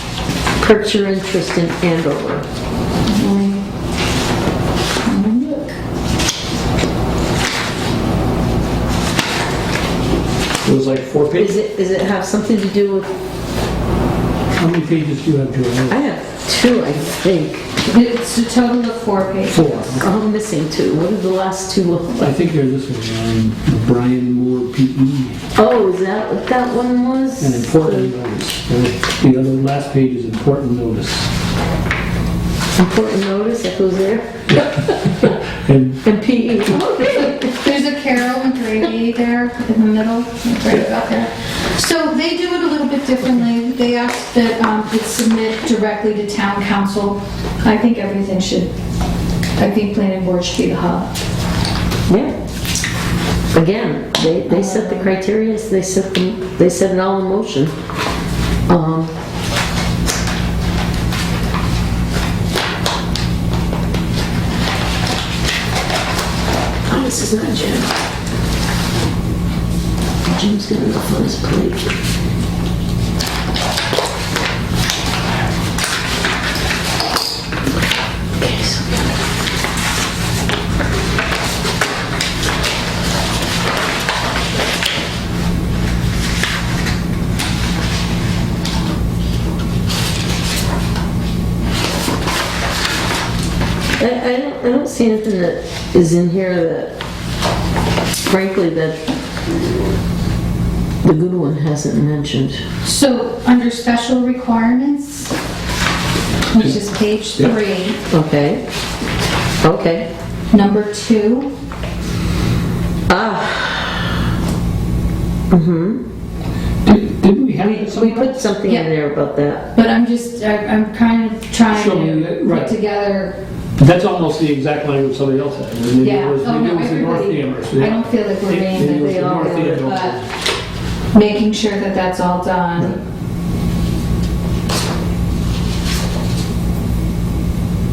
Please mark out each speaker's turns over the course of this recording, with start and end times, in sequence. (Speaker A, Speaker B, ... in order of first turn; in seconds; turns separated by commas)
Speaker A: 0.6-2.5, Speaker B: 3.0-3.6, Speaker B: 5.0-5.7, Speaker C: 10.6-11.6, Speaker A: 11.3-13.1, Speaker C: 14.5-16.0, Speaker A: 15.9-17.7, Speaker B: 17.8-20.0, Speaker C: 19.5-20.1, Speaker A: 20.0-22.3, Speaker C: 22.2-25.4, Speaker A: 25.6-28.1, Speaker C: 27.4-31.3, Speaker A: 32.8-34.9, Speaker C: 34.5-36.0, Speaker A: 36.0-37.7, Speaker B: 37.0-48.7, Speaker B: 49.6-51.1, Speaker A: 52.1-52.3, Speaker A: 53.5-57.7, Speaker B: 54.5-55.1, Speaker A: 58.7-59.1, Speaker A: 66.9-67.9, Speaker A: 70.2-71.9, Speaker A: 78.4-79.1, Speaker A: 94.0-96.9, Speaker A: 98.2-99.0, Speaker A: 101.0-102.6, Speaker B: 102.8-105.3, Speaker B: 106.5-108.0, Speaker A: 108.1-108.6, Speaker A: 109.6-110.1, Speaker B: 110.5-111.5, Speaker A: 113.1-114.1, Speaker A: 115.5-116.0, Speaker C: 116.8-118.5, Speaker A: 117.6-119.7, Speaker B: 118.6-118.9, Speaker B: 119.7-123.4, Speaker C: 121.7-122.8, Speaker C: 123.8-130.2, Speaker B: 126.0-130.2, Speaker A: 128.8-129.9, Speaker B: 131.1-133.0